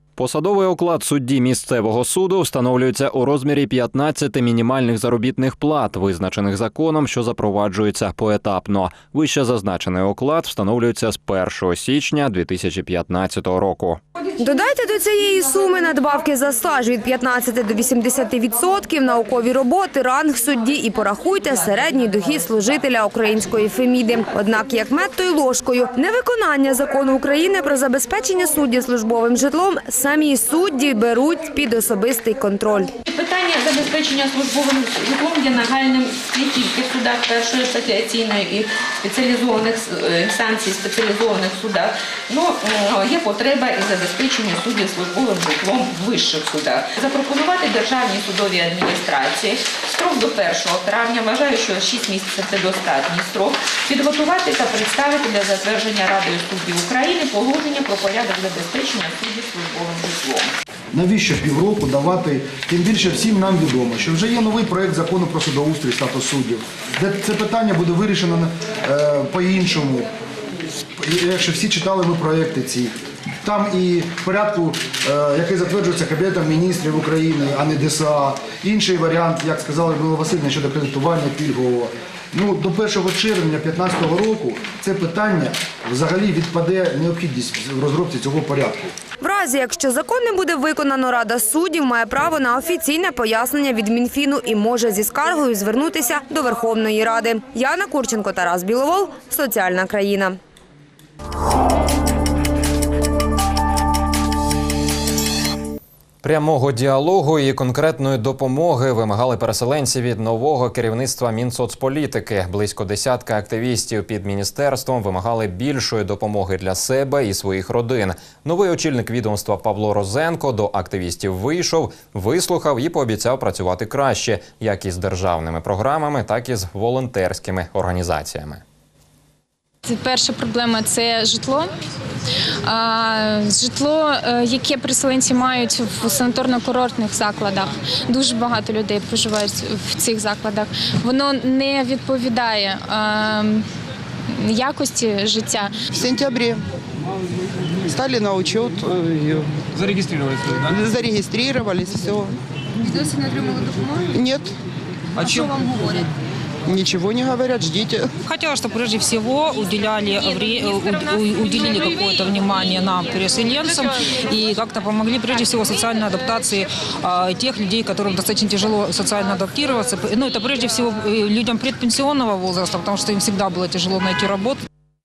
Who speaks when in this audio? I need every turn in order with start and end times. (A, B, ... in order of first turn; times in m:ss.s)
0:00.2-0:14.0 A
0:14.4-0:32.9 B
0:33.1-1:00.5 C
1:00.9-1:10.1 D
1:11.0-1:28.8 D
1:29.2-1:40.4 B
1:46.2-2:08.6 A
2:09.8-2:11.7 E
2:12.7-2:23.6 E
2:24.4-2:25.7 E
2:26.0-2:26.6 F
2:27.9-2:29.5 F
2:30.6-2:32.4 F
2:34.0-2:34.5 F
2:36.7-2:38.1 F
2:38.3-2:54.6 G